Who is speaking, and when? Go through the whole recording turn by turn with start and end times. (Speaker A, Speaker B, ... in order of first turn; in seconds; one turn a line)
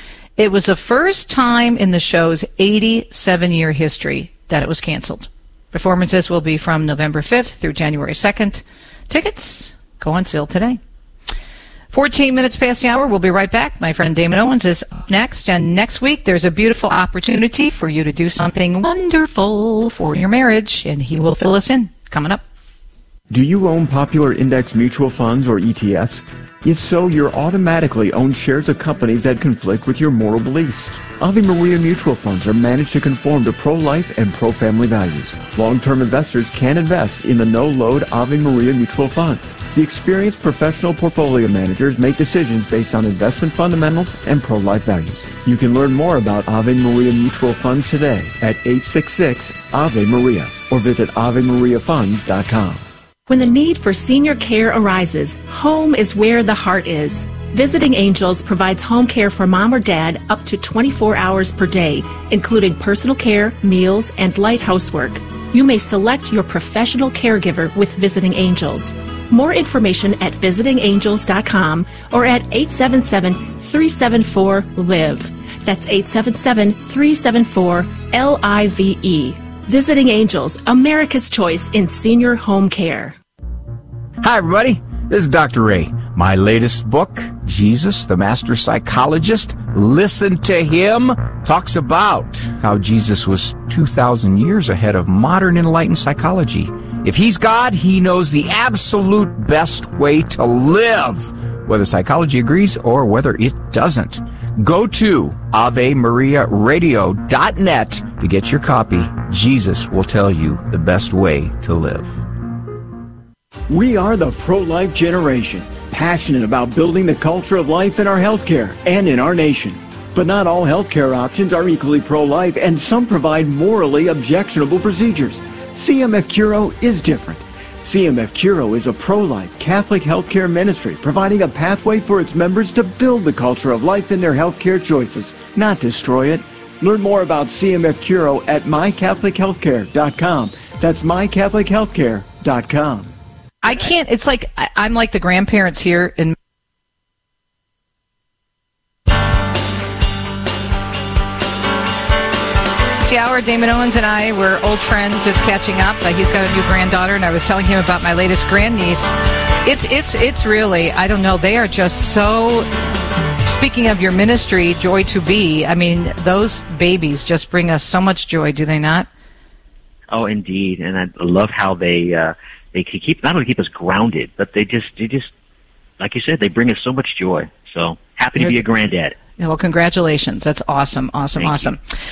Speaker A: 0.4-10.8
Speaker A: 11.9-22.4
Speaker B: 23.3-52.8
Speaker C: 53.3-83.2
Speaker D: 84.2-112.2
Speaker B: 113.7-143.1
Speaker A: 143.6-146.3
Speaker A: 153.0-159.1
Speaker A: 159.7-162.7
Speaker A: 163.5-169.1
Speaker E: 170.1-175.3
Speaker E: 176.0-179.2
Speaker A: 179.4-181.8
Speaker E: 181.4-181.7